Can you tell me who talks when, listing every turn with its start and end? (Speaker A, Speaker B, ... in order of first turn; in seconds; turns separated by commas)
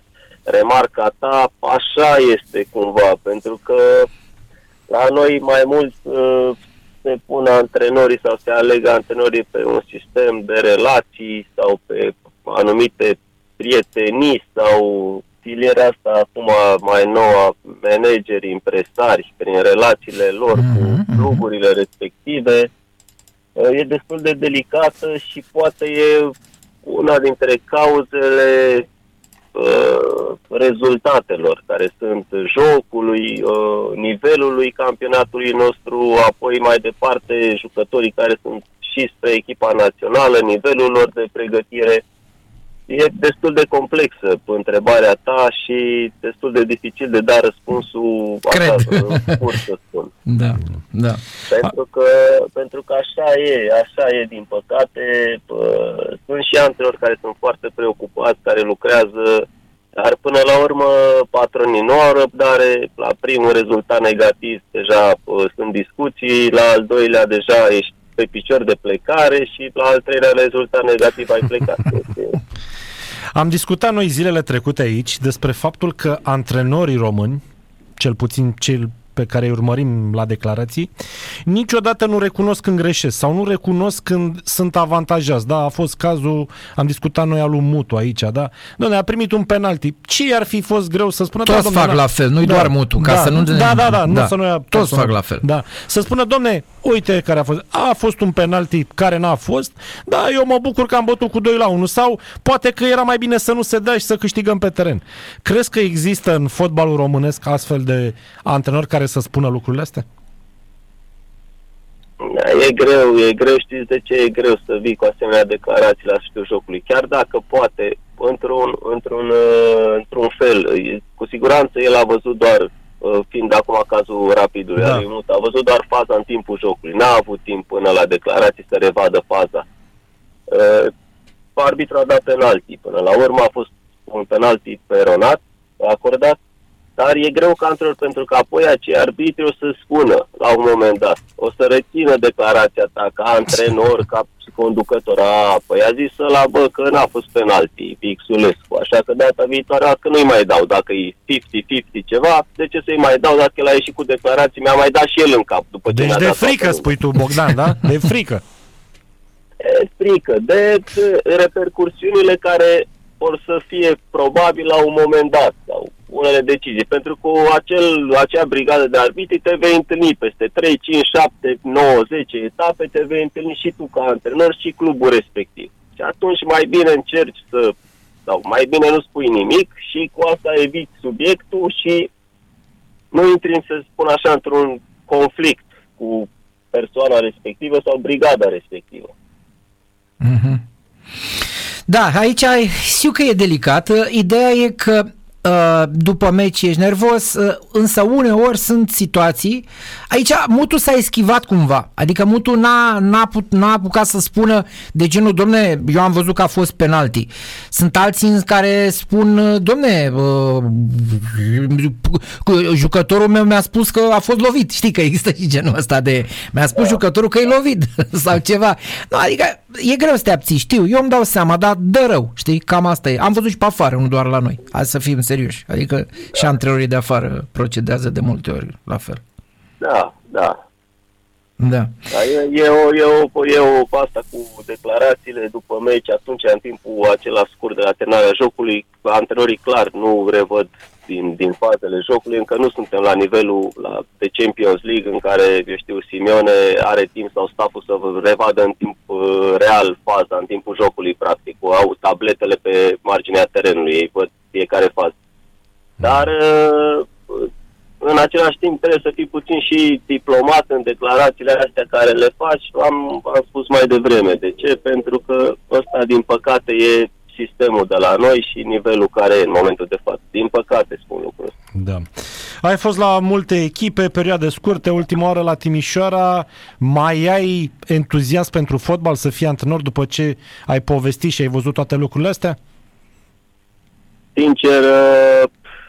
Speaker A: 0.5-4.1, Speaker A: 4.9-22.7, Speaker B: 20.5-21.4, Speaker A: 23.6-26.3, Speaker A: 26.9-28.9, Speaker A: 29.6-42.0, Speaker A: 42.9-50.1, Speaker B: 48.5-49.4, Speaker B: 50.3-51.2, Speaker A: 51.5-72.4, Speaker C: 73.3-77.4, Speaker C: 78.0-80.9, Speaker C: 81.5-110.0, Speaker B: 91.5-95.4, Speaker A: 112.2-129.7, Speaker C: 124.8-125.0, Speaker A: 130.5-130.9, Speaker A: 131.6-136.4, Speaker A: 137.0-156.9, Speaker C: 155.9-158.4, Speaker A: 159.6-177.7, Speaker A: 178.3-182.1, Speaker A: 183.1-189.1, Speaker B: 190.2-190.6, Speaker B: 191.9-229.2, Speaker A: 229.8-230.6, Speaker B: 231.6-231.9, Speaker A: 232.1-255.2, Speaker A: 256.0-257.5, Speaker A: 258.0-271.5, Speaker C: 271.8-272.0, Speaker C: 272.6-282.6, Speaker A: 284.4-285.5